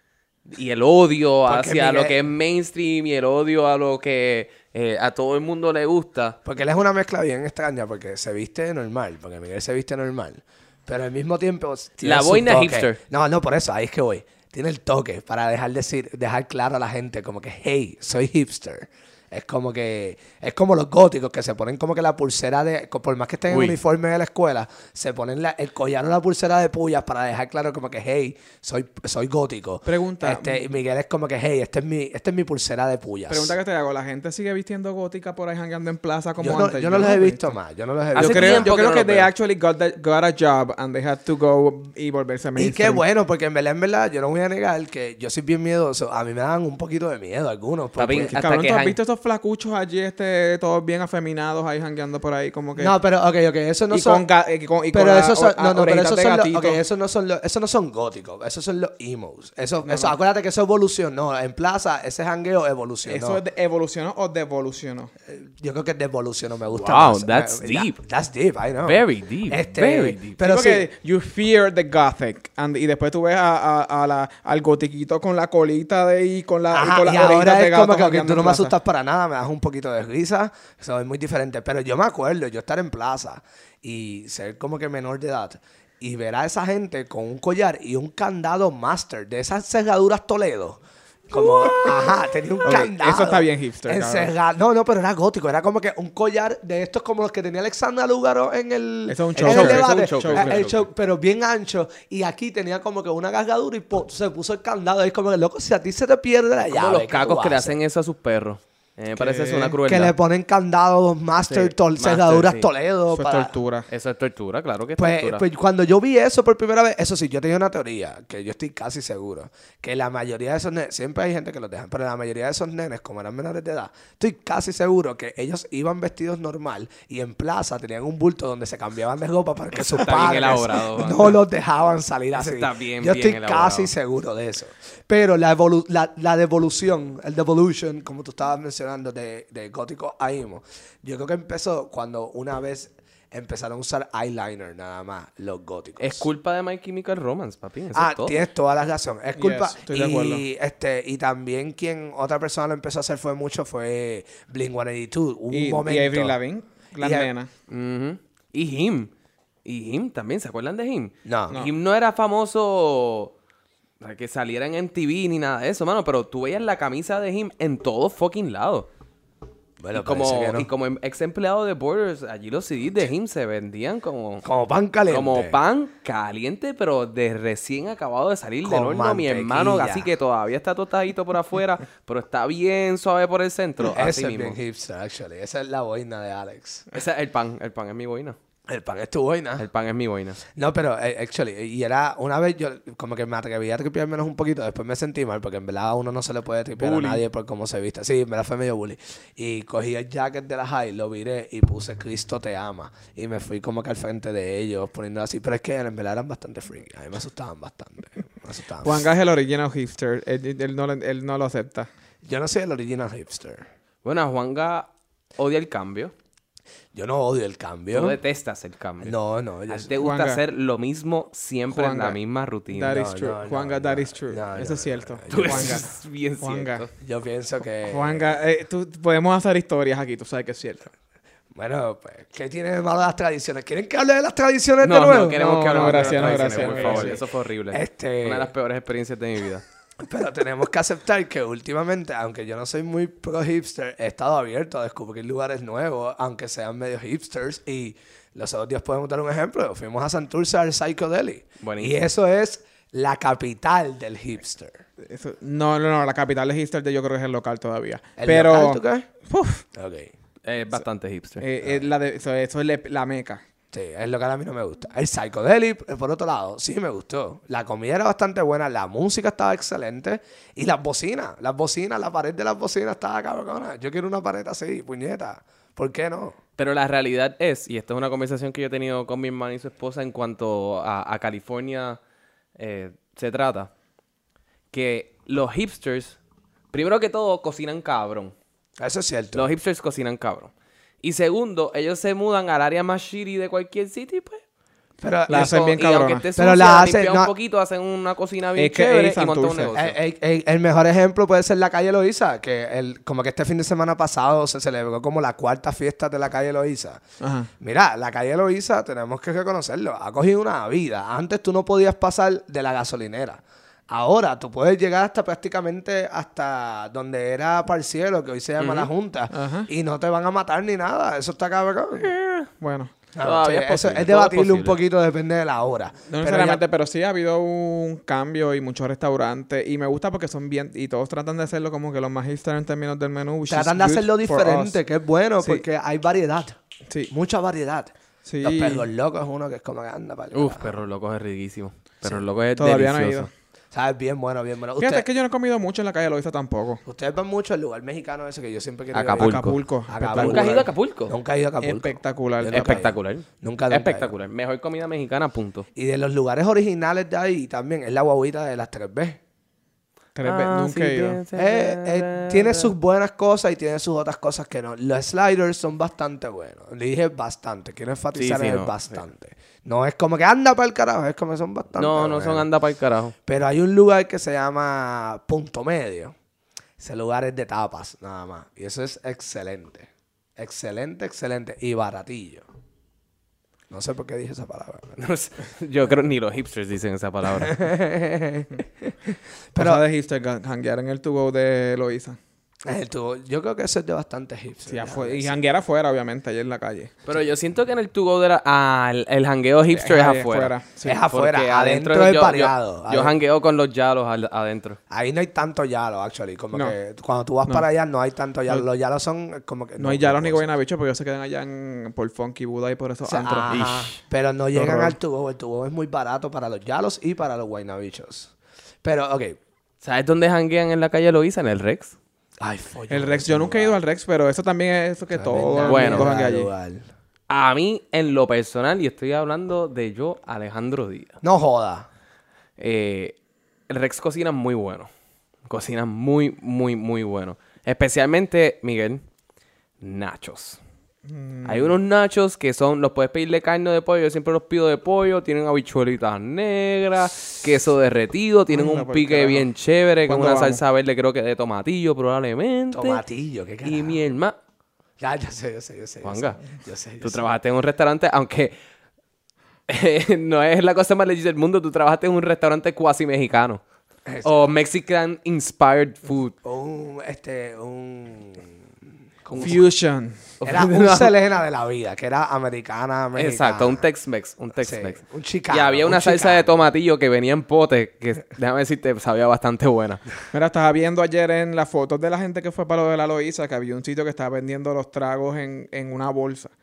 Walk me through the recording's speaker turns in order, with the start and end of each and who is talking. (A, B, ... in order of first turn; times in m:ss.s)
0:00.5-0:06.4 A
0:01.5-0:02.2 B
0:06.4-0:33.6 B
0:12.0-0:13.0 A
0:23.5-0:23.8 A
0:29.8-0:30.6 C
0:33.3-0:37.6 C
0:36.4-0:38.7 B
0:38.2-0:39.3 A
0:38.2-0:43.0 C
0:42.6-0:48.3 B
0:48.0-0:49.0 A
0:48.2-0:52.9 C
0:52.8-0:54.2 B
0:53.9-0:56.8 C
0:54.9-1:03.4 B
0:59.9-1:00.1 C
1:03.1-1:05.1 C
1:05.3-1:10.9 B
1:06.7-1:08.0 A
1:08.8-1:10.4 A
1:10.4-1:18.7 C
1:16.7-1:47.8 B
1:32.6-1:34.3 C
1:39.1-1:40.7 C
1:39.4-1:40.8 A
1:46.7-1:50.1 A
1:49.2-1:49.8 C
1:49.8-1:53.6 B
1:51.5-1:52.7 A
1:53.1-1:53.9 C
1:53.9-1:55.4 A
1:55.0-2:26.3 B
2:09.7-2:11.4 A
2:12.3-2:13.9 A
2:26.0-2:28.4 A
2:27.9-2:36.4 B
2:29.4-2:30.4 C
2:35.5-2:37.5 C
2:37.0-2:37.3 B
2:37.7-2:39.1 A
2:39.6-2:43.4 A
2:41.2-2:41.6 B
2:44.0-2:48.9 A
2:49.8-2:50.7 B
2:50.0-2:54.4 A
2:54.4-2:55.6 B
2:55.1-3:04.6 A
2:58.6-3:00.1 B
3:03.8-3:06.9 B
3:06.9-3:08.4 A
3:08.7-3:09.6 B
3:09.6-3:10.4 A
3:10.5-3:29.1 B
3:16.8-3:17.2 A
3:28.8-3:31.9 C
3:32.2-3:33.6 B
3:34.0-3:36.1 A
3:36.9-3:38.2 B
3:37.9-3:39.1 A
3:39.0-3:39.9 B
3:39.7-3:43.0 A
3:40.0-3:40.4 C
3:41.7-3:42.2 C
3:42.7-3:45.9 C
3:42.9-3:45.8 B
3:45.3-3:46.9 A
3:46.4-3:46.8 C
3:47.0-3:48.3 B
3:47.8-3:50.9 C
3:51.5-3:58.5 B
3:54.8-3:59.6 A
3:55.4-3:57.2 C
4:00.0-4:14.8 B
4:11.6-4:12.1 A
4:15.0-4:19.6 C
4:18.2-4:19.1 B
4:19.7-4:20.1 B
4:20.4-4:21.4 A
4:21.4-4:23.4 C
4:21.6-4:21.9 B
4:23.7-4:36.4 B
4:36.6-4:42.0 A
4:42.6-4:43.7 A
4:44.7-4:46.2 A
4:46.7-4:48.3 A
4:48.8-4:49.5 B
4:49.3-4:54.4 A
4:55.0-4:55.7 B
4:55.3-4:56.3 C
4:55.4-5:00.0 A
4:56.4-4:57.3 B
4:58.6-4:59.7 C
4:59.7-5:07.0 B
5:07.2-5:07.5 C
5:07.6-5:22.1 B
5:18.6-5:18.9 A
5:19.3-5:19.7 C
5:22.0-5:22.5 A
5:22.6-5:22.9 C
5:23.1-5:26.6 B
5:23.2-5:24.8 A
5:26.1-5:34.8 C
5:33.5-5:36.6 B
5:37.1-5:40.7 B
5:38.3-5:38.8 C
5:40.3-5:43.3 A
5:42.6-5:43.3 C
5:43.7-5:45.1 B
5:44.8-5:46.8 C
5:46.8-5:54.1 B
5:48.9-5:49.6 A
5:49.1-5:50.7 C
5:50.1-5:51.2 A
5:51.6-5:52.8 C
5:52.5-5:55.7 A
5:55.8-5:59.2 B
6:00.2-6:01.2 C
6:00.2-6:02.7 A
6:01.4-6:12.5 B
6:08.2-6:09.0 A
6:11.8-6:13.2 A
6:13.3-6:16.2 B
6:16.8-6:22.5 B
6:23.7-6:25.0 B
6:25.0-6:27.6 A
6:27.4-6:28.9 B
6:29.6-6:29.8 B
6:29.6-6:32.2 C
6:32.6-6:35.4 B
6:34.7-6:36.9 C
6:37.1-6:44.8 A
6:39.7-6:41.0 C
6:40.8-6:43.2 B
6:44.9-6:50.5 B
6:49.8-6:53.6 C
6:53.0-6:58.3 B
6:53.5-6:54.0 A
6:54.6-6:55.0 C
6:58.8-6:59.4 B
6:59.8-7:02.0 A
7:02.4-7:03.8 B
7:02.9-7:06.5 C
7:05.1-7:06.9 B
7:05.6-7:06.1 A
7:07.3-7:11.2 A
7:11.2-7:11.9 B
7:12.6-7:13.2 A
7:13.7-7:14.9 A
7:15.5-7:19.0 A
7:19.8-7:20.6 A
7:21.1-7:21.8 C
7:21.4-7:33.0 A
7:28.5-7:29.5 C
7:30.1-7:30.6 C
7:32.7-7:34.0 B
7:33.6-7:34.4 A
7:35.0-7:37.2 B
7:36.0-7:36.4 A
7:37.0-7:38.6 A
7:39.7-7:43.6 A
7:44.1-7:44.5 B
7:44.2-7:46.4 A
7:46.4-7:48.6 B
7:49.2-7:49.6 B
7:49.4-7:50.2 C
7:50.4-7:51.2 A
7:50.4-7:53.9 B
7:53.2-7:55.0 A
7:54.6-7:56.6 B
7:55.5-8:00.0 A
8:00.3-8:06.5 C